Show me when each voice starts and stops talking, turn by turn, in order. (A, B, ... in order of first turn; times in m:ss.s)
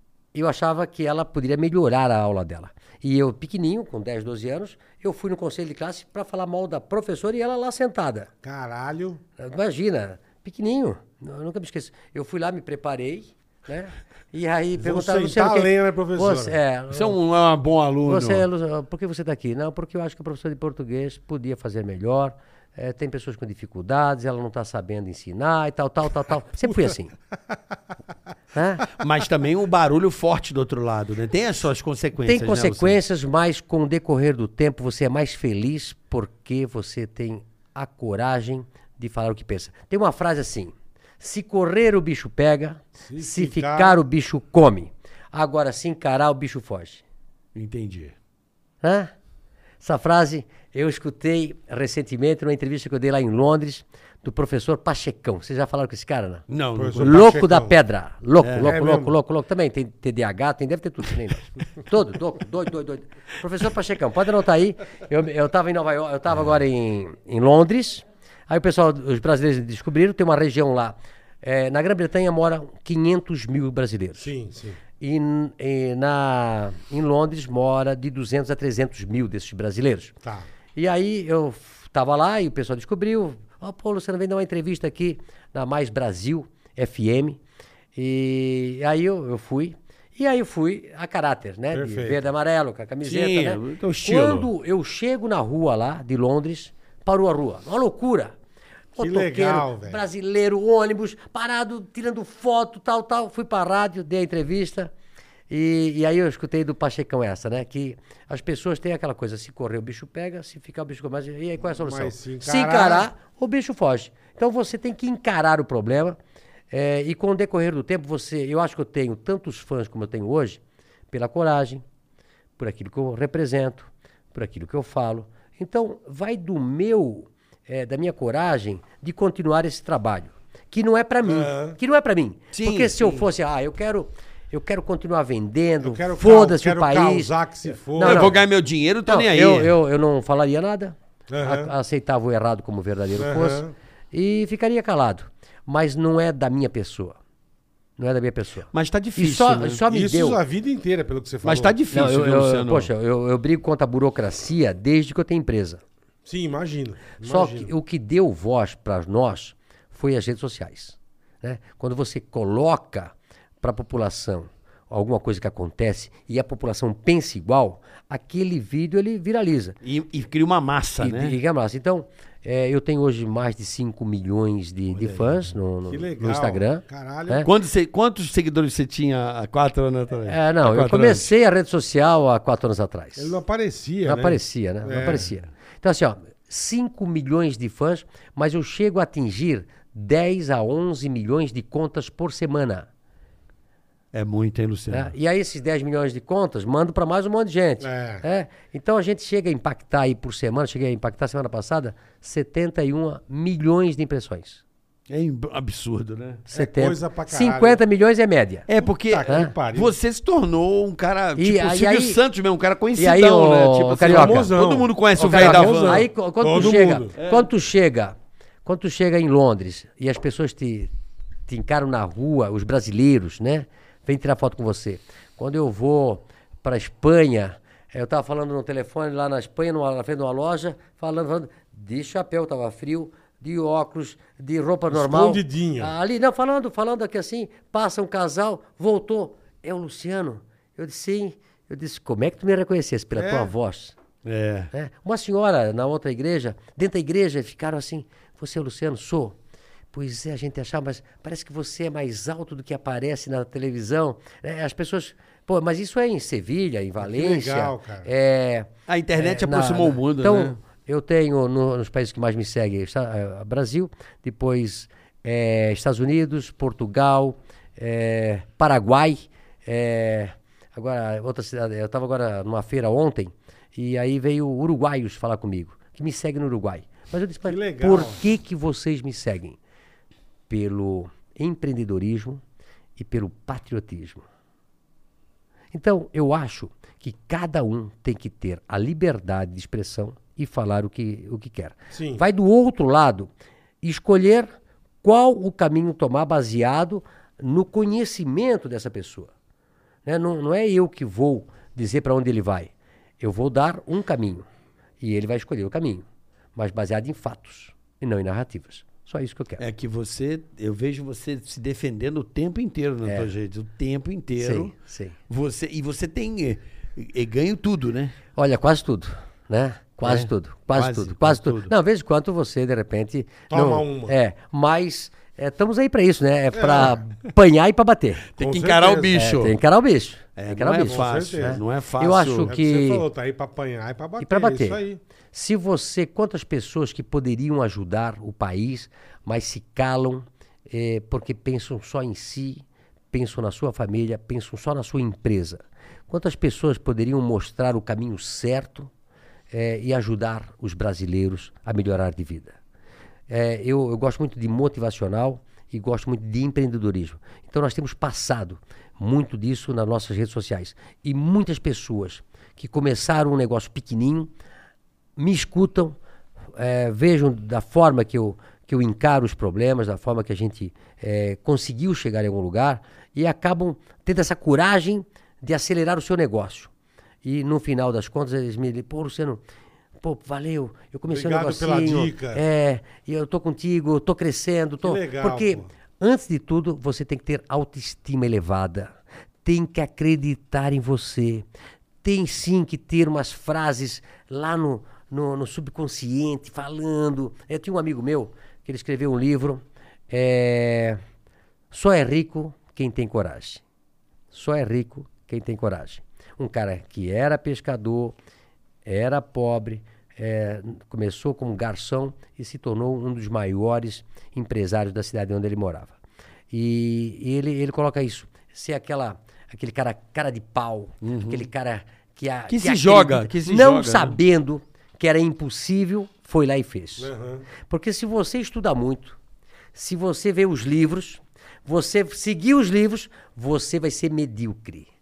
0:00.3-0:08.3 A
0:08.4-0:09.2 B
0:09.4-0:17.2 A
0:14.8-0:16.6 B
0:16.9-0:18.4 C
0:18.0-0:27.1 A
0:28.5-0:28.9 A
0:28.9-0:33.0 C
0:32.2-0:47.0 A
0:43.0-0:44.0 B
0:47.6-0:48.1 C
0:48.8-0:49.1 A
0:49.8-0:56.4 A
0:56.5-0:57.3 C
0:56.8-0:57.8 B
0:57.0-1:14.3 A
0:58.4-0:58.7 C
0:58.6-0:59.1 B
1:14.2-1:14.8 B
1:15.0-1:20.1 A
1:20.8-1:27.4 A
1:27.9-1:38.3 A
1:31.7-1:32.2 B
1:33.0-1:34.5 C
1:38.9-1:44.9 A
1:39.0-1:40.0 B
1:45.5-1:56.2 A
1:51.8-1:53.1 B
1:56.7-2:01.8 A
2:02.6-2:17.3 A
2:11.2-2:11.8 B
2:12.5-2:13.1 C
2:15.8-2:18.4 B
2:17.9-2:18.4 A
2:18.0-2:19.7 C
2:19.0-2:27.2 A
2:21.3-2:21.7 B
2:23.2-2:23.7 B
2:28.0-2:30.4 A
2:28.7-2:29.8 C
2:29.9-2:31.8 B
2:31.4-2:32.9 C
2:31.9-2:35.8 A
2:36.3-2:37.7 B
2:37.2-2:49.8 A
2:49.8-2:51.4 C
2:51.0-2:57.5 A
2:54.9-2:55.5 C
2:55.9-2:57.4 B
2:57.4-3:01.3 C
3:00.3-3:03.4 A
3:03.2-3:05.3 B
3:04.0-3:12.9 A
3:14.1-3:15.1 C
3:14.9-3:24.6 A
3:17.8-3:18.2 B
3:25.1-3:26.4 C
3:26.5-3:28.7 A
3:26.5-3:27.8 B
3:28.7-3:36.0 C
3:28.8-3:29.9 B
3:31.4-3:32.2 A
3:33.0-3:34.6 A
3:34.0-3:37.1 B
3:35.2-3:40.9 A
3:36.6-3:37.5 C
3:41.5-4:04.0 A
3:54.9-3:55.9 B
4:03.1-4:03.5 B
4:04.2-4:04.7 C
4:04.7-4:09.4 A
4:09.9-4:39.6 A
4:17.0-4:18.1 B
4:18.9-4:20.6 C
4:37.4-4:38.2 B
4:40.5-4:42.4 A
4:43.0-4:44.2 A
4:45.7-4:59.3 A
4:51.9-4:52.2 B
5:00.0-5:04.4 A
5:05.0-5:09.6 A
5:09.6-5:14.7 C
5:13.0-5:13.3 A
5:14.4-5:15.2 A
5:15.3-5:18.1 C
5:18.4-5:28.3 A
5:20.0-5:21.7 C
5:23.5-5:24.2 B
5:26.5-5:27.0 B
5:28.3-5:29.6 C
5:28.4-5:29.2 B
5:29.1-5:33.0 A
5:30.4-5:32.5 C
5:30.8-5:31.6 B
5:32.4-5:35.0 B
5:34.2-5:34.8 A
5:35.3-5:48.9 A
5:49.5-5:52.6 A
5:53.3-6:04.3 A
6:05.2-6:06.0 A
6:06.6-6:16.7 A
6:17.2-6:19.4 A
6:20.0-6:31.4 A
6:21.1-6:22.4 B
6:24.8-6:25.6 B
6:32.0-6:41.0 A
6:41.7-6:43.6 A
6:44.3-6:48.2 A
6:48.8-6:56.0 A
6:56.5-7:07.1 A
7:01.0-7:01.5 C
7:02.5-7:04.2 C
7:07.0-7:07.5 B
7:07.6-7:09.2 A
7:09.7-7:14.9 A